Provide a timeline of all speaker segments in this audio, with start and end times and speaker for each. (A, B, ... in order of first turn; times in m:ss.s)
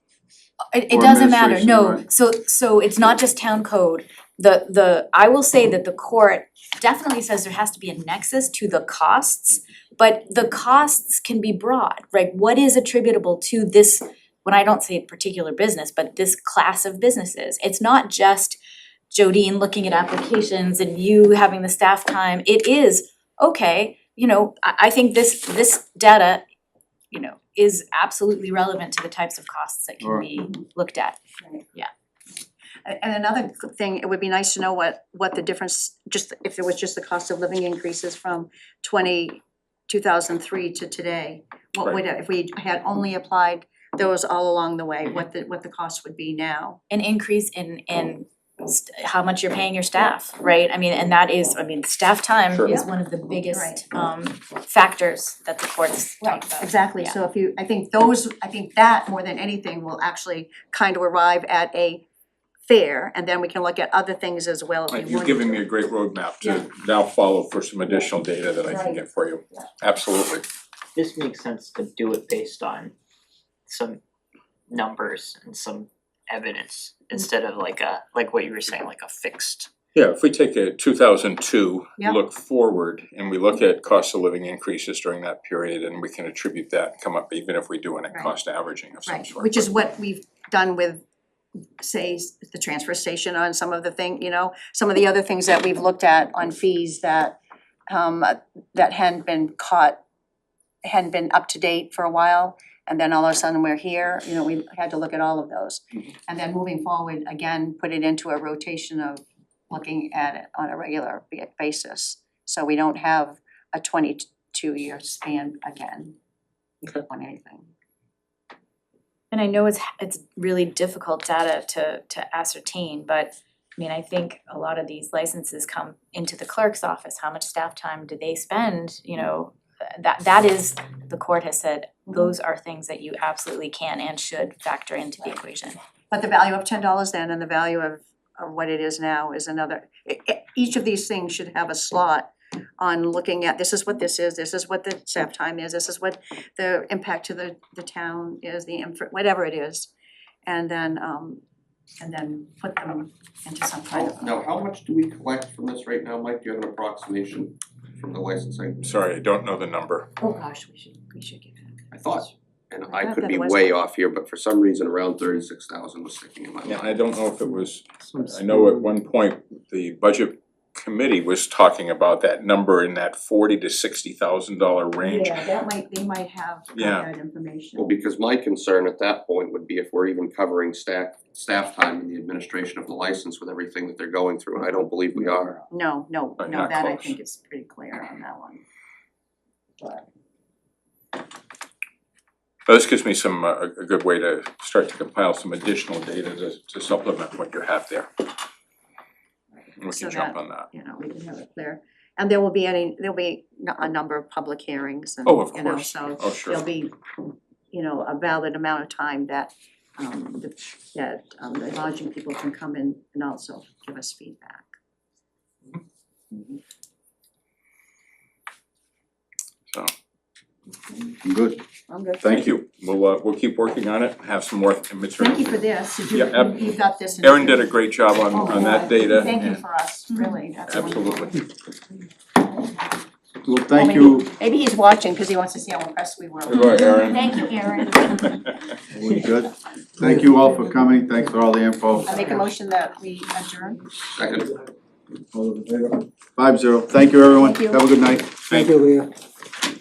0:00.7-0:18.6 A
0:00.9-0:02.0 B
0:19.1-0:26.4 A
0:27.1-0:31.2 A
0:32.8-0:46.8 C
0:46.9-0:57.1 A
0:53.5-0:53.8 C
0:56.2-1:02.0 C
1:02.7-1:05.6 C
1:04.9-1:10.4 D
1:08.7-1:09.0 C
1:10.9-1:12.9 E
1:13.7-1:14.0 E
1:14.7-1:19.7 E
1:19.9-1:29.6 D
1:28.1-1:28.3 C
1:29.0-1:31.0 C
1:31.8-1:37.4 C
1:37.9-1:40.0 C
1:40.8-1:56.2 C
1:56.8-1:57.6 C
1:59.3-2:15.8 A
2:16.1-2:29.9 C
2:30.4-2:31.4 C
2:32.0-2:34.4 C
2:33.9-2:38.9 F
2:38.8-2:40.1 D
2:40.2-2:42.3 C
2:41.9-2:47.1 F
2:42.8-2:43.8 C
2:46.6-2:55.4 D
2:55.0-2:57.9 C
2:56.7-2:57.1 D
2:57.7-3:05.7 F
3:05.7-3:08.6 C
3:06.4-3:07.1 D
3:12.6-3:18.1 D
3:19.7-3:26.9 C
3:19.8-3:20.7 D
3:25.2-3:26.6 D
3:27.7-3:34.6 C
3:41.2-3:41.6 B
3:41.9-3:42.2 C
3:42.2-3:42.5 B
3:42.2-3:45.5 D
3:45.2-3:47.8 C
3:46.1-3:46.6 D
3:47.2-3:49.6 D
3:48.3-3:51.4 C
3:50.7-3:51.4 D
3:53.4-3:54.3 B
3:53.7-3:57.5 C
3:56.5-3:57.5 D
3:56.6-3:58.4 A
3:58.9-4:02.2 B
4:02.0-4:03.8 C
4:04.2-4:04.6 F
4:05.3-4:09.0 B
4:07.4-4:07.8 C